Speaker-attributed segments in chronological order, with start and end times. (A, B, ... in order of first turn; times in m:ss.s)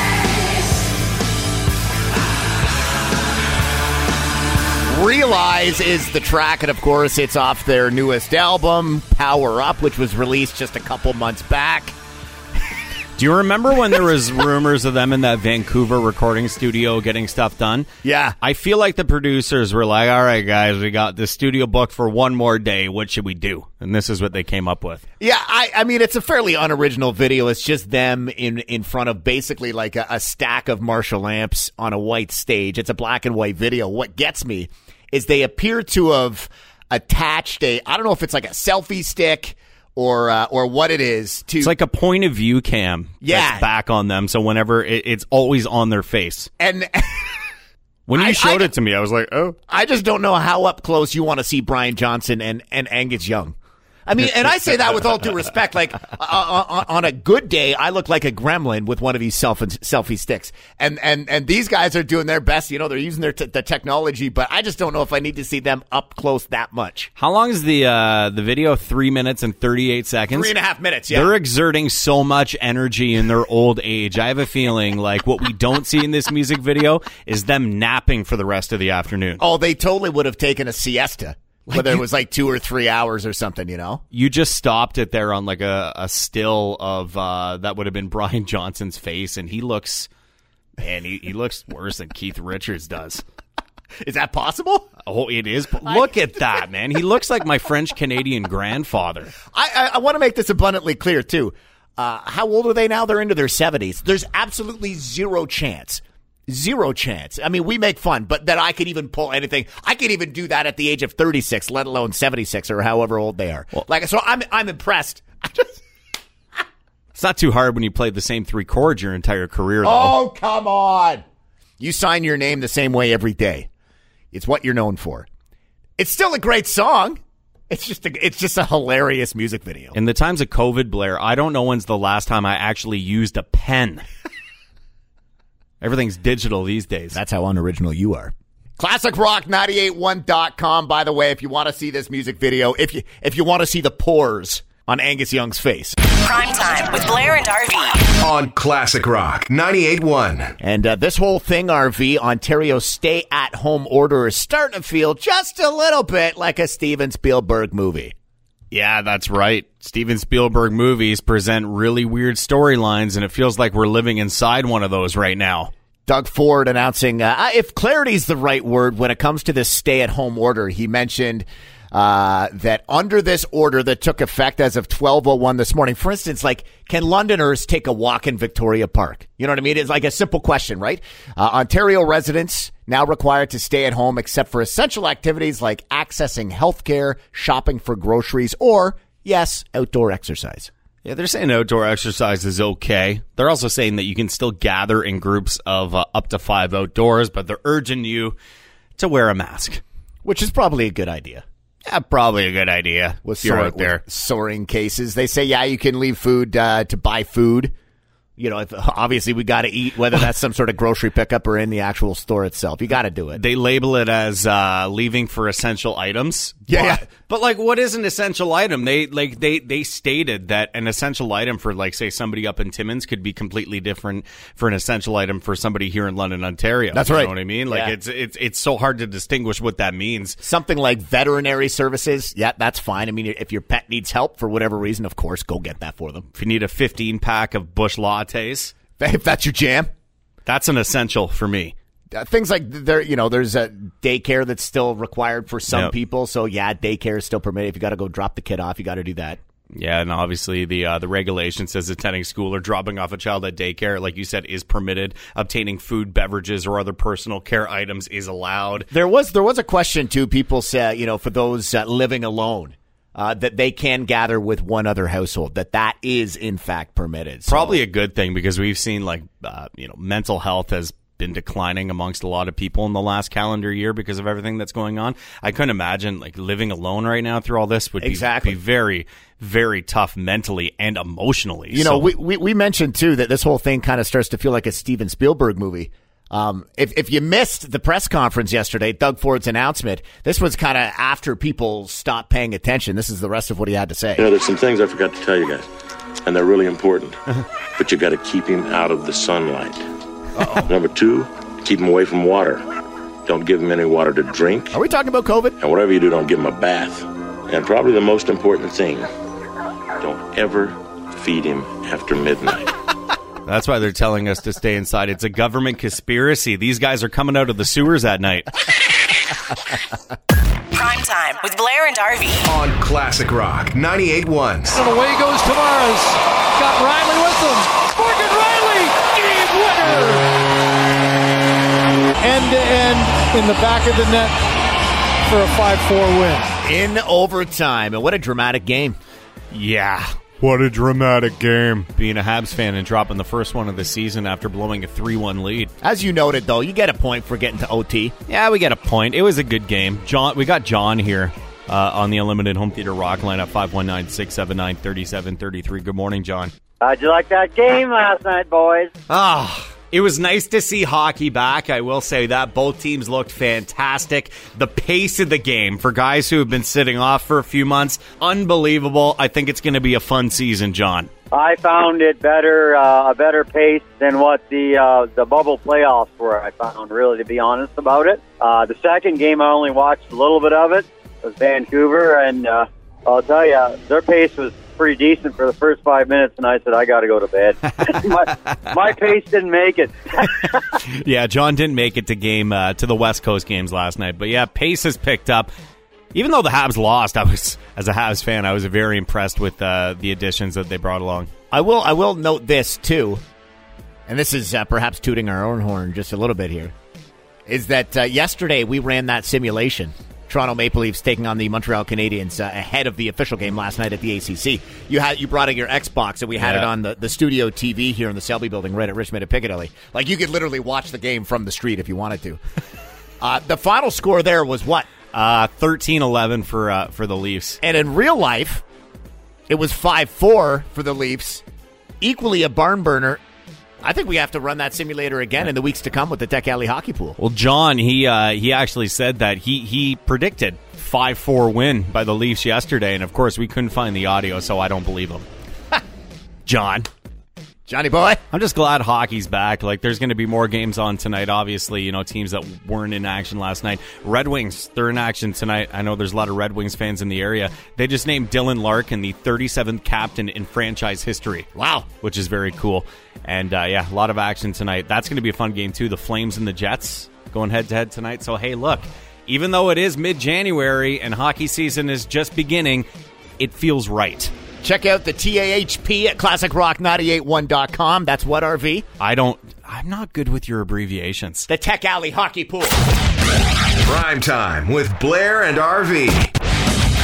0:04.9-0:12.0 A
0:13.2-0:17.9 B
0:18.0-0:18.4 A
0:18.4-0:25.0 B
0:25.2-0:41.8 A
0:41.6-0:46.5 B
0:43.2-0:43.7 A
0:46.6-0:47.5 A
0:48.1-0:49.6 B
0:48.2-0:48.7 A
0:49.7-0:53.6 A
0:54.1-1:07.1 A
1:07.2-1:10.5 B
1:10.3-1:11.3 A
1:11.1-1:19.4 B
1:19.4-1:24.0 A
1:21.7-1:22.0 B
1:24.1-1:30.1 B
1:30.8-1:33.2 B
1:34.0-1:34.9 A
1:35.0-1:39.3 B
1:39.5-1:55.8 A
1:57.2-2:00.2 B
1:59.8-2:01.2 A
2:01.8-2:03.7 A
2:04.3-2:05.3 A
2:06.0-2:07.2 A
2:07.7-2:10.0 A
2:09.9-2:14.0 B
2:15.8-2:17.2 B
2:17.1-2:26.0 A
2:26.2-2:28.0 C
2:28.2-2:30.5 D
2:30.6-2:38.1 A
2:38.7-2:45.7 B
2:46.1-3:10.7 A
3:11.0-3:18.4 B
3:19.0-3:19.8 B
3:20.2-3:21.4 A
3:21.8-3:24.0 B
3:23.2-3:27.7 A
3:28.4-3:33.4 A
3:33.4-3:50.4 B
3:36.7-3:37.0 A
3:46.9-3:47.9 A
3:50.4-3:56.2 A
3:56.3-3:58.8 B
3:59.0-3:59.9 A
4:00.5-4:01.8 B
4:02.1-4:09.4 A
4:09.7-4:18.9 B
4:18.9-4:27.8 A
4:27.5-4:42.1 B
4:38.0-4:38.6 A
4:41.7-4:54.3 A
4:54.2-4:55.7 E
4:56.2-4:57.2 E
4:57.8-4:59.8 E
5:00.4-5:00.6 A
5:00.6-5:02.6 E
5:03.3-5:04.8 E
5:04.7-5:05.6 A
5:05.6-5:09.1 E
5:10.0-5:12.7 E
5:13.5-5:18.6 B
5:20.7-5:22.4 C
5:22.5-5:24.8 D
5:25.0-5:25.4 F
5:29.0-5:29.5 F
5:32.5-5:33.3 F
5:35.3-5:35.6 F
5:36.6-5:39.0 A
5:39.5-5:45.7 B
5:45.8-5:48.1 A
5:48.3-5:56.5 B
5:56.8-5:58.9 G
5:59.1-6:11.1 B
6:11.3-6:30.6 G
6:30.8-6:35.5 B
6:36.1-6:41.3 B
6:41.5-6:43.2 A
6:44.1-6:46.7 A
6:47.5-7:02.4 A
6:56.4-6:56.7 B
7:03.2-7:04.9 A
7:05.1-7:07.6 B
7:07.6-7:08.6 A
7:09.5-7:11.4 A
7:12.0-7:13.2 A
7:13.8-7:17.2 A
7:17.2-7:25.3 B
7:26.5-7:26.9 B
7:27.7-7:28.2 A
7:28.3-7:52.9 B
7:41.6-7:41.9 A
7:53.4-7:54.3 B
7:54.6-7:58.9 A
7:59.0-8:01.5 B
8:01.5-8:02.8 A
8:03.8-8:06.3 D